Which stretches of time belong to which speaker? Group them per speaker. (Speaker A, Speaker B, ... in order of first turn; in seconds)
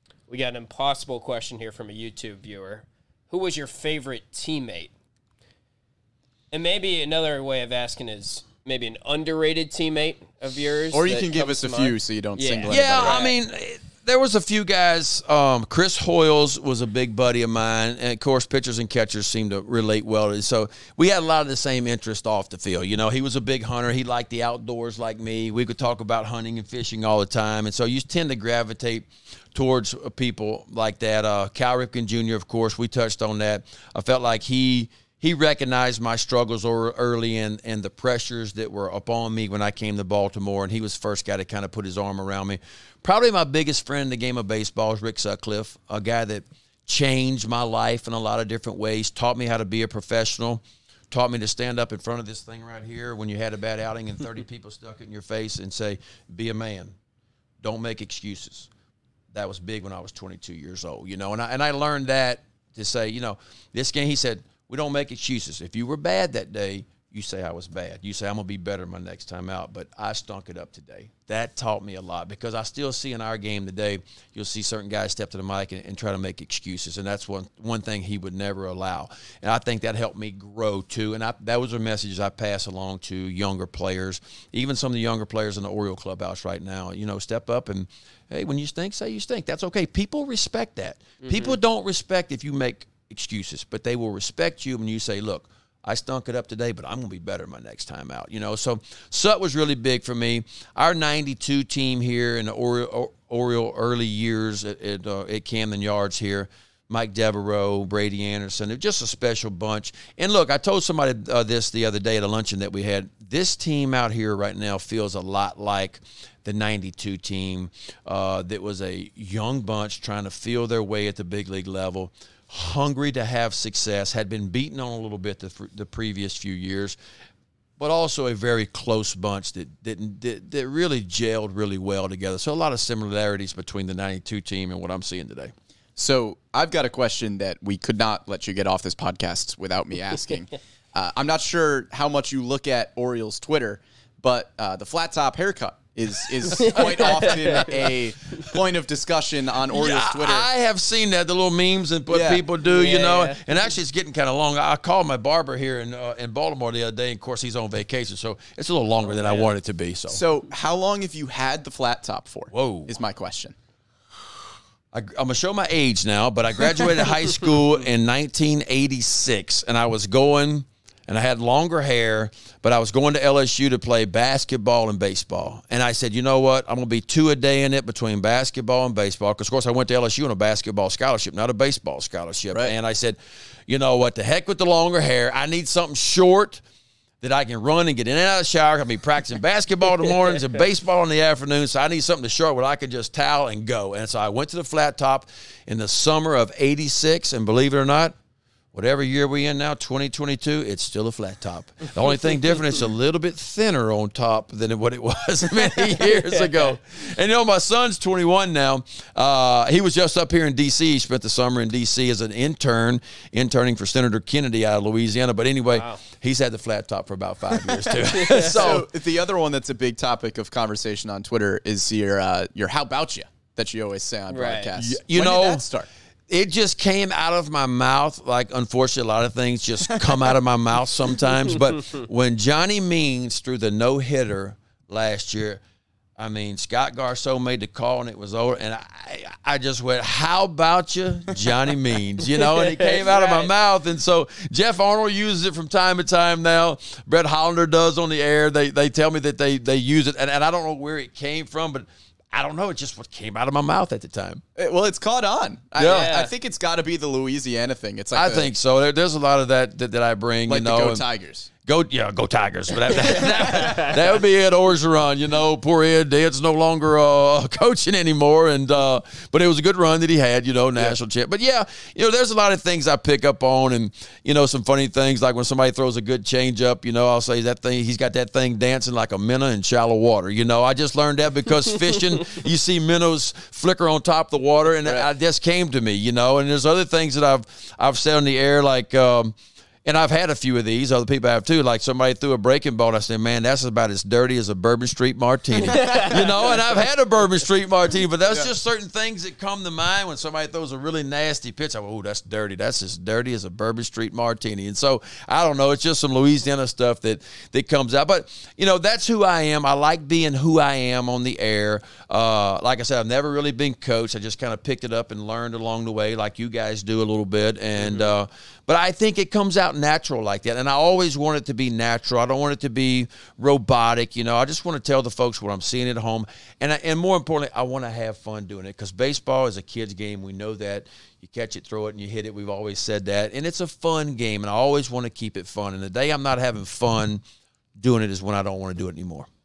Speaker A: 0.3-4.9, 6.5-13.3, 91.2-91.6, 146.6-147.8, 152.6-153.5, 215.7-216.0, 218.1-218.7, 224.3-224.8, 242.4-243.5, 255.9-256.3, 263.6-263.9
Speaker B: 10.9-13.2, 136.0-150.5, 152.1-152.4, 160.1-163.6, 218.3-225.9, 254.6-258.5, 260.5-261.5, 263.1-264.0, 295.7-296.3
Speaker C: 12.7-57.0, 57.6-58.7, 59.3-127.0, 127.8-135.5, 146.8-147.2, 149.7-160.2, 162.5-163.0, 164.9-186.6, 187.2-198.1, 198.7-218.9, 224.7-225.7, 226.3-235.6, 236.2-254.4, 255.8-256.1, 258.1-261.1, 261.6-289.3, 289.9-337.2, 337.8-339.3